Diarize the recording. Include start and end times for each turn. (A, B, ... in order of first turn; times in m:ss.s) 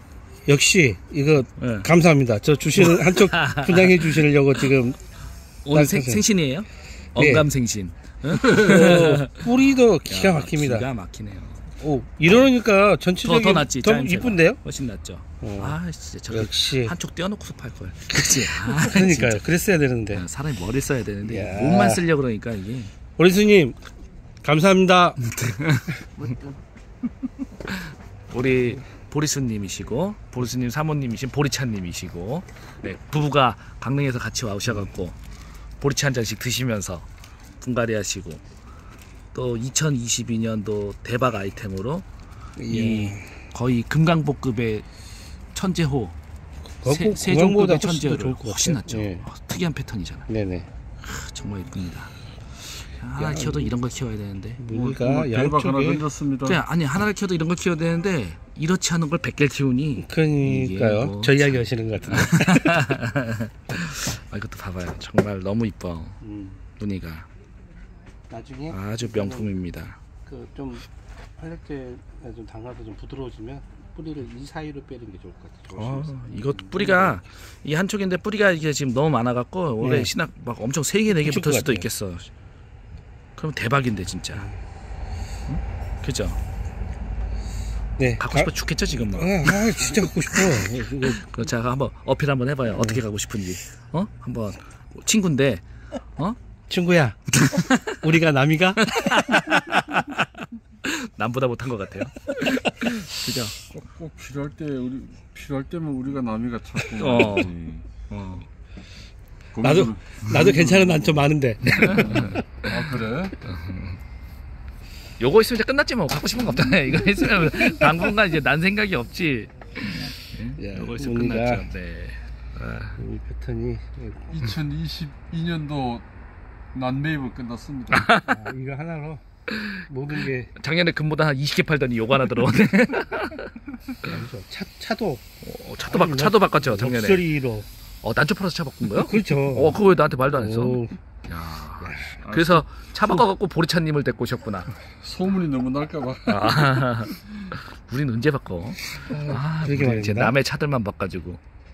0:00.4-0:05.0 A
0:01.6-0:01.9 B
0:02.8-0:04.2 B
0:05.6-0:11.7 B
0:05.7-0:06.2 A
0:07.2-0:07.5 A
0:08.3-0:10.9 A
0:11.8-0:14.6 A
0:13.2-0:19.5 B
0:15.4-0:15.8 A
0:16.3-0:16.9 A
0:18.2-0:20.2 A
0:20.1-0:22.9 B
0:21.2-0:22.0 A
0:23.2-0:23.8 A
0:24.4-0:25.2 A
0:25.2-0:26.1 B
0:27.7-0:35.2 B
0:35.8-0:37.1 B
0:37.6-0:38.4 B
0:39.3-0:42.0 B
0:42.6-0:43.4 A
0:42.7-0:44.8 B
0:45.5-0:46.2 B
0:46.8-0:49.2 A
0:46.8-0:50.3 B
0:50.3-0:50.7 A
0:51.0-0:54.6 B
0:53.2-0:53.7 A
0:54.6-0:56.0 A
0:54.7-0:56.6 C
0:56.4-1:06.2 B
1:00.0-1:02.9 A
1:06.2-1:06.6 A
1:06.8-1:07.3 B
1:08.3-1:09.5 A
1:08.7-1:10.0 B
1:10.2-1:17.2 A
1:15.7-1:22.3 B
1:19.8-1:20.1 A
1:21.1-1:21.9 A
1:23.4-1:24.5 B
1:25.5-1:26.4 B
1:28.0-1:31.2 A
1:28.2-1:35.6 B
1:32.7-1:33.0 A
1:36.7-1:39.4 A
1:37.4-1:38.0 B
1:38.8-1:43.6 B
1:43.6-1:47.8 C
1:46.9-1:47.5 B
1:48.1-1:48.5 B
1:49.5-1:51.3 C
1:49.6-1:52.4 A
1:51.6-1:52.7 B
1:52.0-1:53.4 C
1:53.4-1:54.0 B
1:55.2-2:03.0 B
2:00.6-2:01.7 A
2:03.0-2:04.3 A
2:04.3-2:06.0 C
2:06.7-2:08.2 C
2:07.9-2:08.3 B
2:08.2-2:09.2 A
2:09.5-2:13.5 B
2:09.9-2:10.5 A
2:14.0-2:15.2 A
2:15.4-2:17.4 B
2:15.8-2:17.7 A
2:18.0-2:24.7 B
2:18.9-2:19.8 A
2:20.3-2:21.0 A
2:21.8-2:22.2 A
2:22.2-2:22.6 C
2:25.0-2:26.8 C
2:26.3-2:31.4 B
2:29.0-2:30.4 A